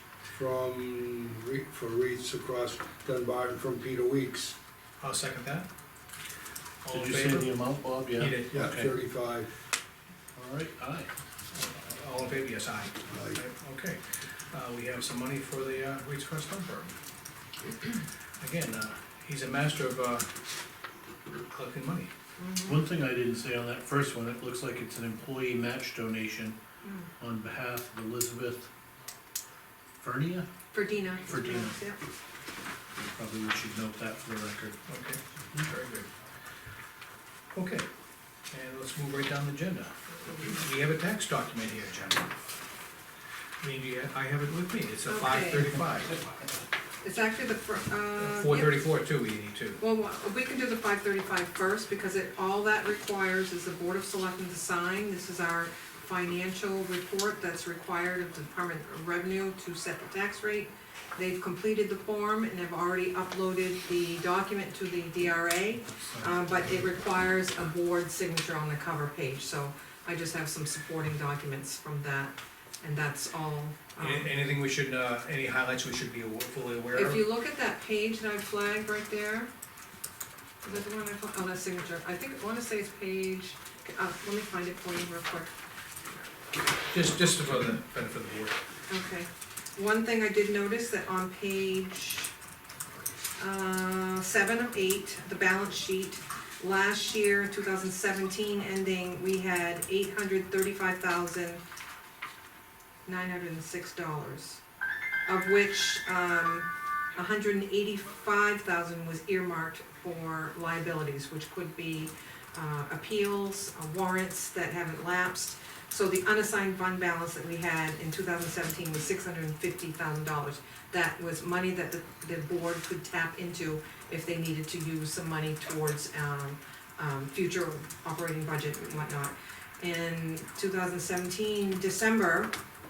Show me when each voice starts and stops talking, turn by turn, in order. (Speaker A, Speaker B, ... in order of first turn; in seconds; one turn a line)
Speaker A: 0.3-4.5
Speaker B: 5.0-5.7
Speaker B: 6.8-7.5
Speaker C: 6.9-8.9
Speaker B: 8.2-8.7
Speaker A: 8.5-9.5
Speaker C: 10.3-11.1
Speaker B: 11.5-16.9
Speaker A: 13.1-13.4
Speaker B: 18.4-20.3
Speaker B: 21.5-22.1
Speaker D: 22.4-22.8
Speaker C: 22.6-26.6
Speaker D: 26.8-27.1
Speaker C: 27.2-28.7
Speaker C: 30.0-30.5
Speaker D: 30.7-32.0
Speaker C: 31.3-31.8
Speaker C: 33.0-34.8
Speaker B: 34.9-36.1
Speaker B: 37.5-37.9
Speaker B: 38.5-42.3
Speaker B: 43.6-46.2
Speaker D: 45.1-45.7
Speaker D: 47.0-48.8
Speaker B: 48.2-49.8
Speaker D: 49.8-74.3
Speaker B: 74.0-77.2
Speaker D: 76.9-79.5
Speaker D: 80.6-85.5
Speaker B: 86.9-88.5
Speaker D: 88.9-92.3
Speaker D: 93.4-101.6
Speaker D: 103.0-104.6
Speaker D: 105.3-132.5